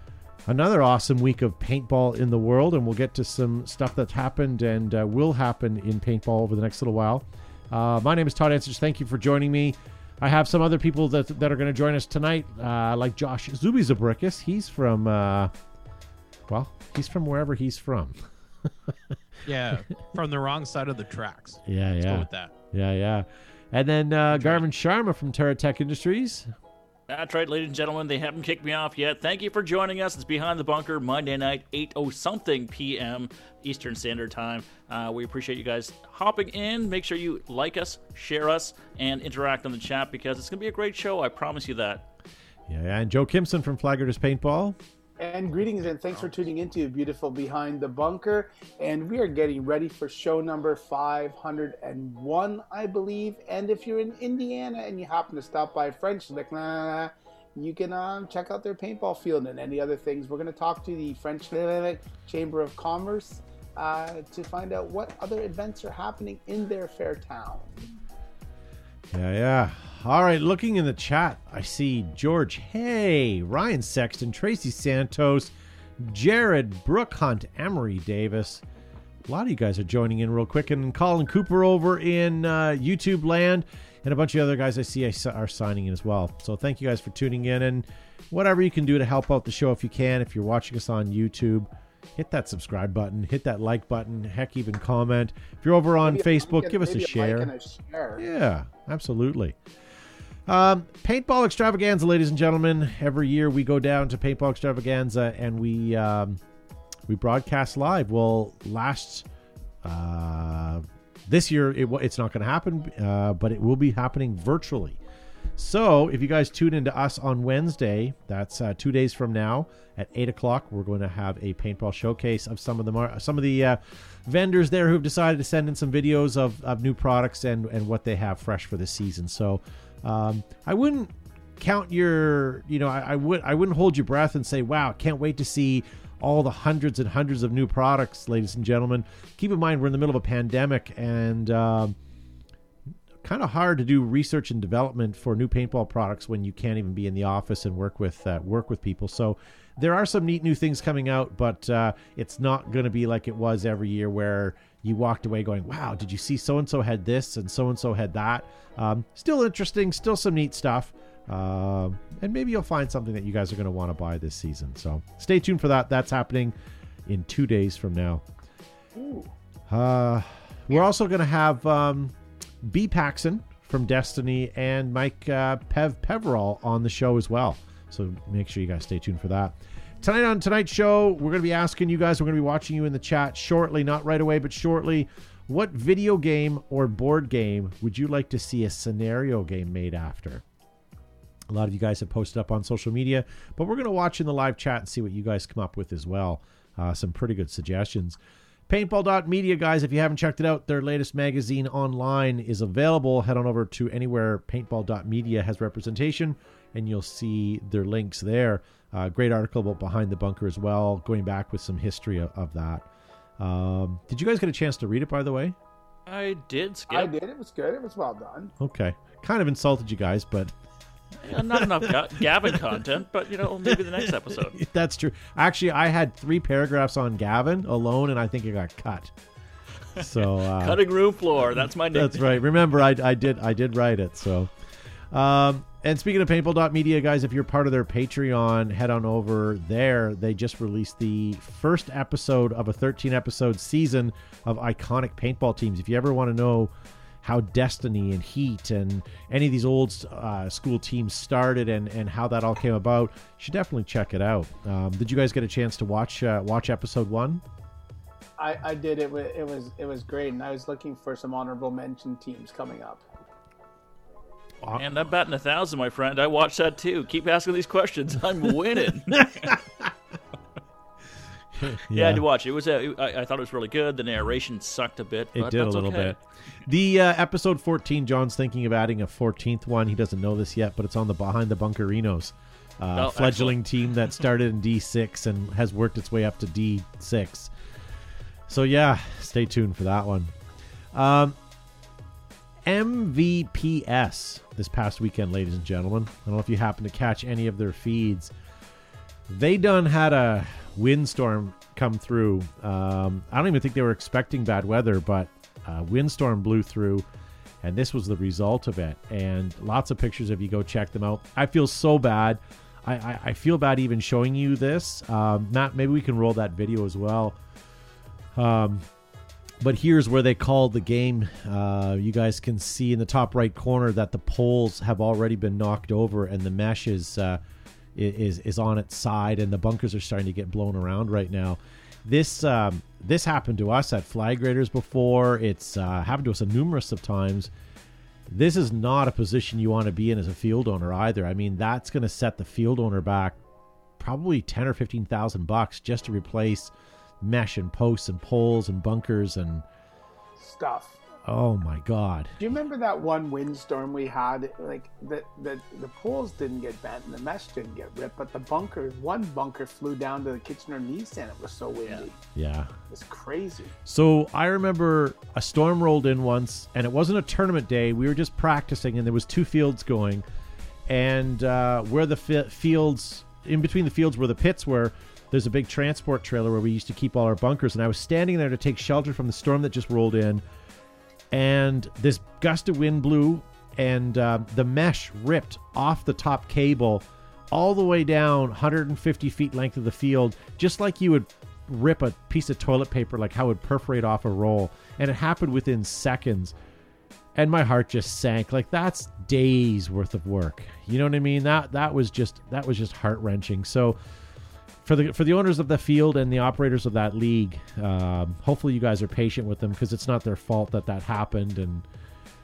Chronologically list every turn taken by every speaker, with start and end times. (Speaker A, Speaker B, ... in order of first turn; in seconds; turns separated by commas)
Speaker A: 0.5-15.5, Speaker A: 16.5-18.2, Speaker B: 19.5-22.5, Speaker A: 21.7-26.5, Speaker B: 24.3-24.6, Speaker C: 27.1-42.1, Speaker A: 42.7-44.8, Speaker D: 45.2-67.8, Speaker A: 69.1-78.6, Speaker A: 79.3-97.5, Speaker D: 96.0-98.2, Speaker A: 98.2-99.6, Speaker A: 100.5-106.4, Speaker A: 107.1-109.3, Speaker A: 109.8-115.0, Speaker A: 115.6-142.0, Speaker A: 143.2-166.6, Speaker A: 167.1-168.2, Speaker D: 168.9-169.3, Speaker A: 169.7-190.4, Speaker A: 191.5-198.2, Speaker A: 198.7-212.9, Speaker A: 213.4-215.6, Speaker C: 216.1-217.1, Speaker D: 216.9-218.5, Speaker A: 218.6-220.5, Speaker C: 221.2-224.6, Speaker A: 221.3-221.9, Speaker A: 223.7-229.1, Speaker A: 230.0-230.8, Speaker C: 230.0-232.4, Speaker A: 231.4-234.5, Speaker A: 235.1-257.4, Speaker D: 258.4-263.1, Speaker C: 264.8-269.6, Speaker A: 269.2-269.6, Speaker A: 271.6-272.2, Speaker C: 271.9-276.2, Speaker A: 275.4-287.5, Speaker C: 282.9-283.6, Speaker A: 288.5-290.3, Speaker A: 290.9-291.4, Speaker A: 292.7-298.3, Speaker A: 299.3-307.1, Speaker A: 307.6-317.4, Speaker A: 318.4-318.9, Speaker A: 319.6-327.4, Speaker A: 327.9-337.5, Speaker A: 338.3-343.4, Speaker A: 344.0-349.6, Speaker D: 350.4-351.0, Speaker A: 351.2-352.4, Speaker D: 352.4-362.2, Speaker A: 362.4-362.7, Speaker D: 362.9-363.8, Speaker A: 363.9-370.2, Speaker A: 370.9-380.4, Speaker A: 381.3-396.5, Speaker A: 397.4-404.0, Speaker A: 404.8-411.9